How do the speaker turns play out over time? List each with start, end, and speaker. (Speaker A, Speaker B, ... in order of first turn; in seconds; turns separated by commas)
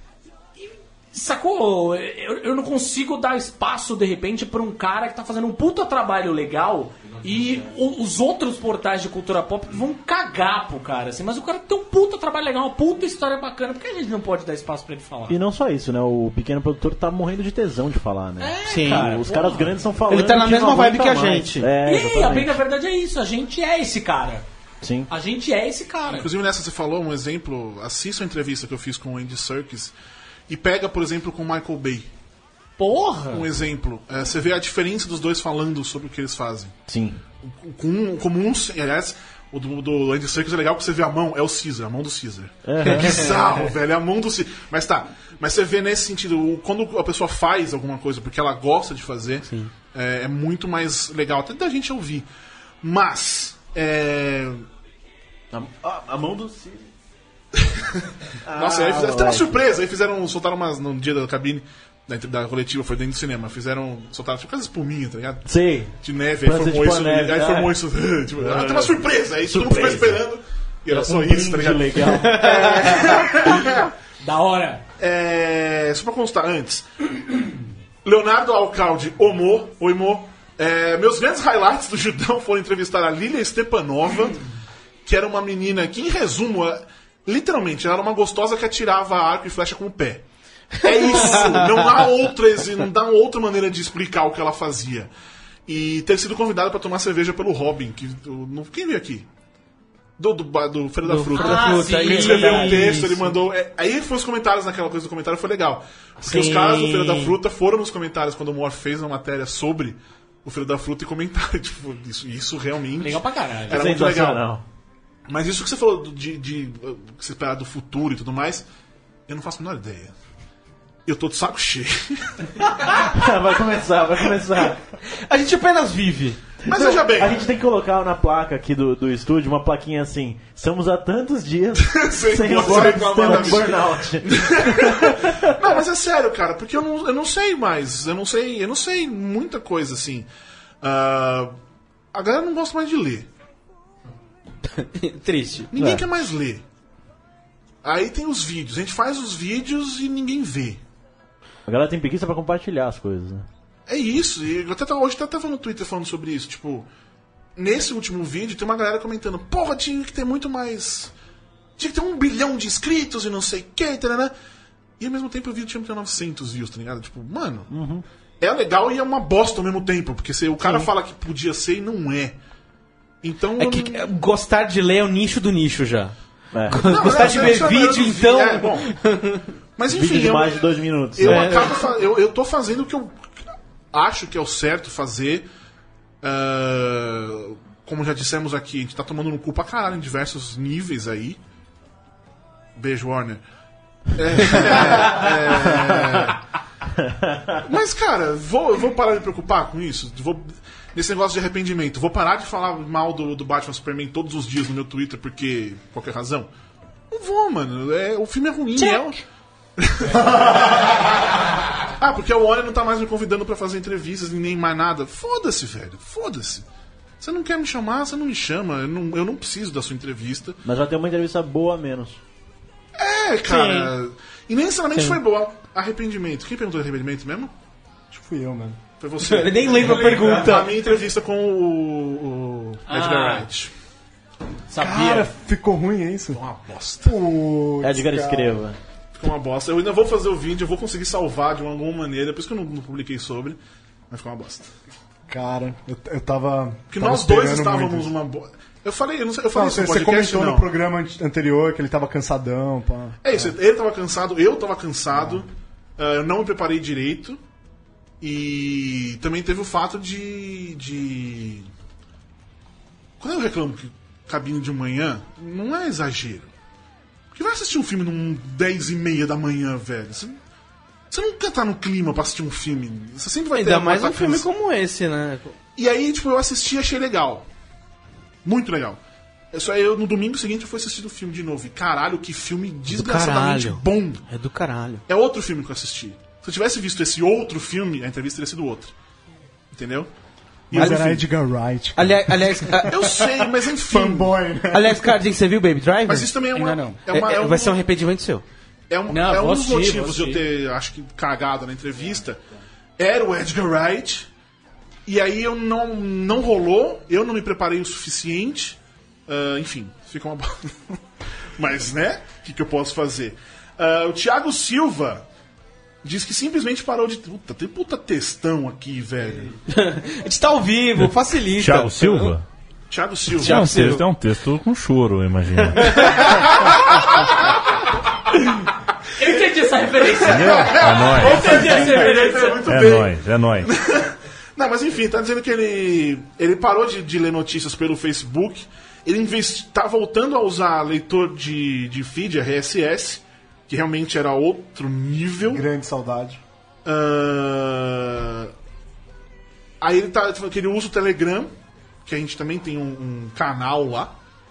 Speaker A: 0.6-15.3, Speaker B: 15.3-22.6, Speaker A: 18.4-19.8, Speaker C: 18.6-19.2, Speaker C: 20.1-21.7, Speaker A: 21.8-24.4, Speaker B: 24.8-25.1, Speaker A: 25.1-26.3, Speaker D: 26.1-29.9, Speaker D: 30.5-32.1, Speaker A: 32.8-33.5, Speaker D: 33.3-36.8, Speaker B: 36.9-37.2, Speaker D: 37.4-52.3, Speaker B: 42.6-43.3, Speaker C: 42.8-43.6, Speaker C: 49.5-49.7, Speaker D: 52.8-54.6, Speaker B: 55.5-56.9, Speaker D: 57.6-73.9, Speaker B: 58.4-59.6, Speaker B: 65.5-67.8, Speaker B: 68.3-70.2, Speaker B: 70.9-73.3, Speaker C: 72.2-73.0, Speaker A: 74.2-74.8, Speaker D: 75.0-77.1, Speaker D: 78.0-84.4, Speaker D: 85.0-90.2, Speaker D: 90.8-95.1, Speaker C: 90.8-91.9, Speaker D: 95.7-99.3, Speaker D: 100.2-114.4, Speaker C: 101.0-103.3, Speaker A: 101.3-103.0, Speaker C: 106.2-107.3, Speaker A: 113.0-113.8, Speaker B: 113.7-114.6, Speaker D: 115.3-118.7, Speaker D: 119.3-120.1, Speaker D: 121.0-122.6, Speaker B: 122.9-124.8, Speaker C: 125.1-126.5, Speaker D: 126.6-127.4, Speaker B: 126.7-135.5, Speaker D: 131.8-140.3, Speaker D: 140.8-141.5, Speaker D: 142.1-143.3, Speaker C: 144.7-146.0, Speaker D: 145.7-146.6, Speaker D: 147.8-150.8, Speaker B: 151.7-153.4, Speaker D: 153.9-156.9, Speaker D: 157.6-161.1, Speaker D: 161.8-164.3, Speaker D: 165.0-167.7, Speaker B: 167.7-168.0, Speaker D: 168.4-172.3, Speaker B: 170.6-170.9, Speaker D: 173.2-174.1, Speaker C: 173.6-176.2, Speaker B: 176.5-177.3, Speaker C: 176.7-179.4, Speaker D: 176.8-178.9, Speaker D: 179.8-183.3, Speaker B: 179.9-181.6, Speaker C: 181.2-181.9, Speaker D: 183.9-185.4, Speaker D: 186.2-191.4, Speaker D: 192.8-193.4, Speaker D: 194.1-196.4, Speaker B: 197.0-197.6, Speaker D: 197.6-206.5, Speaker D: 207.1-209.2, Speaker A: 208.8-209.1, Speaker D: 209.8-211.1, Speaker D: 211.9-216.6, Speaker D: 217.2-220.6, Speaker B: 220.6-222.2, Speaker D: 222.9-227.5, Speaker C: 223.4-223.9, Speaker C: 224.9-225.2, Speaker E: 228.1-228.8, Speaker D: 229.0-233.7, Speaker C: 229.2-230.8, Speaker A: 232.9-233.5, Speaker A: 234.7-235.3, Speaker E: 234.8-236.4, Speaker D: 236.3-237.1, Speaker E: 237.0-238.6, Speaker B: 237.8-238.8, Speaker D: 239.1-243.6, Speaker D: 244.1-244.7, Speaker E: 245.3-248.1, Speaker D: 246.9-250.7, Speaker E: 249.5-253.5, Speaker D: 253.2-257.4, Speaker D: 258.2-261.7, Speaker D: 263.2-266.5, Speaker D: 267.3-270.4, Speaker D: 271.1-274.4, Speaker C: 273.5-275.5, Speaker D: 275.8-277.5, Speaker D: 278.4-279.0, Speaker D: 279.5-284.2, Speaker C: 282.9-285.0, Speaker D: 285.1-288.9, Speaker D: 289.7-290.1, Speaker D: 290.7-291.2, Speaker C: 290.7-291.1, Speaker E: 290.7-295.1, Speaker C: 291.9-293.3, Speaker D: 292.7-294.4, Speaker C: 294.7-296.4, Speaker D: 296.1-297.8, Speaker A: 296.5-297.0, Speaker C: 297.1-298.4, Speaker D: 298.9-302.4, Speaker A: 299.1-300.4, Speaker D: 303.0-304.3, Speaker D: 305.1-311.0, Speaker D: 311.6-315.2, Speaker D: 316.0-319.5, Speaker C: 319.7-322.4, Speaker F: 321.0-322.4, Speaker D: 322.9-323.8, Speaker C: 323.4-324.1, Speaker F: 323.4-326.3, Speaker C: 325.8-326.3, Speaker D: 325.9-327.4, Speaker A: 329.2-332.7, Speaker F: 330.2-331.6, Speaker D: 330.3-345.6, Speaker F: 332.6-333.7, Speaker E: 345.5-346.4, Speaker D: 346.8-348.5, Speaker D: 349.8-351.5, Speaker D: 352.0-354.1